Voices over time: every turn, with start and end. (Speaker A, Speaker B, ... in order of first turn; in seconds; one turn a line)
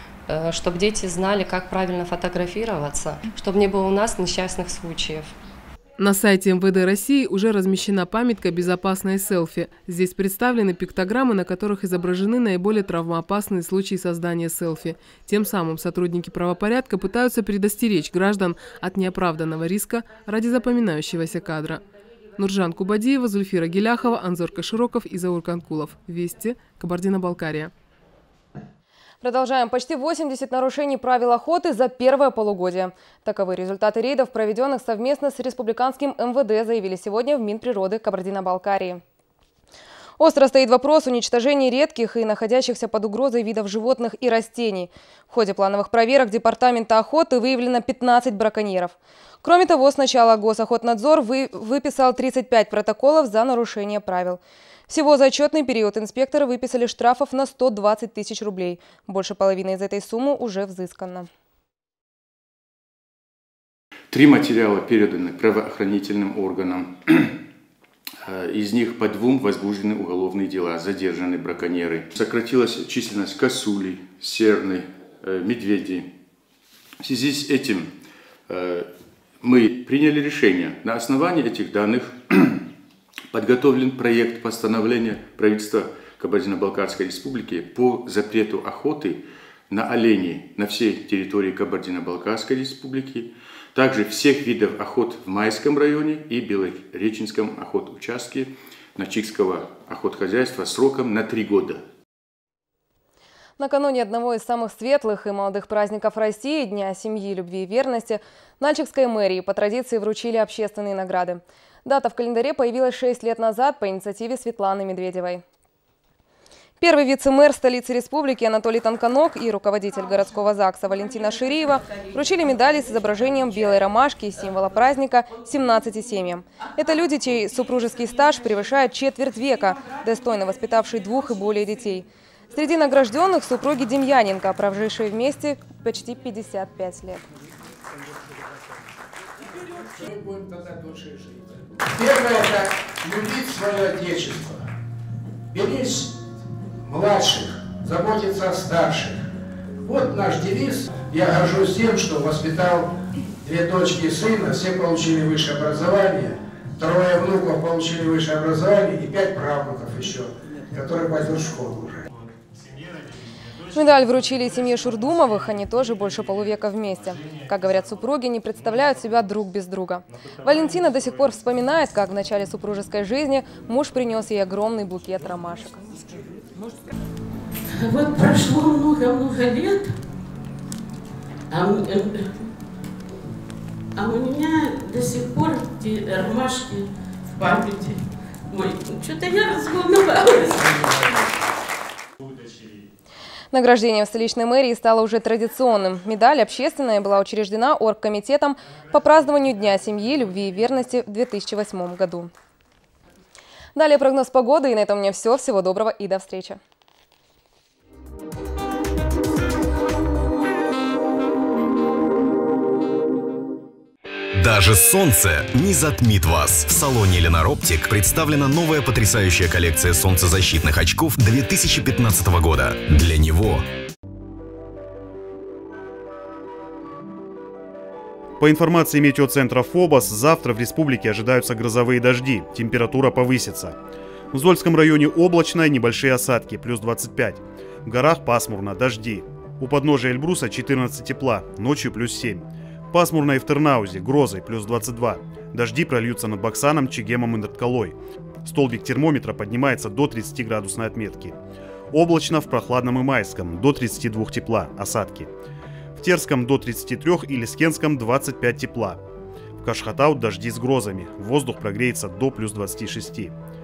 Speaker A: 0.3-5.3
Speaker B: 3.8-4.1
Speaker C: 6.0-21.8
Speaker C: 22.4-27.7
Speaker D: 29.2-39.0
Speaker D: 40.2-61.3
Speaker E: 64.1-67.3
Speaker E: 68.2-76.1
Speaker E: 77.0-77.9
Speaker E: 78.5-78.9
Speaker E: 79.4-82.6
Speaker E: 83.3-101.8
Speaker D: 103.6-115.4
Speaker D: 116.8-137.2
Speaker B: 140.0-144.7
Speaker B: 145.5-146.1
Speaker B: 146.8-149.2
Speaker B: 149.8-162.0
Speaker D: 163.7-175.9
Speaker F: 177.8-179.9
Speaker F: 181.5-182.3
Speaker F: 184.0-191.0
Speaker D: 193.5-202.3
Speaker D: 203.8-206.6
Speaker G: 214.4-223.6
Speaker H: 228.4-233.8
Speaker H: 234.3-251.4
Speaker H: 251.9-255.3
Speaker H: 256.0-259.0
Speaker H: 259.6-263.3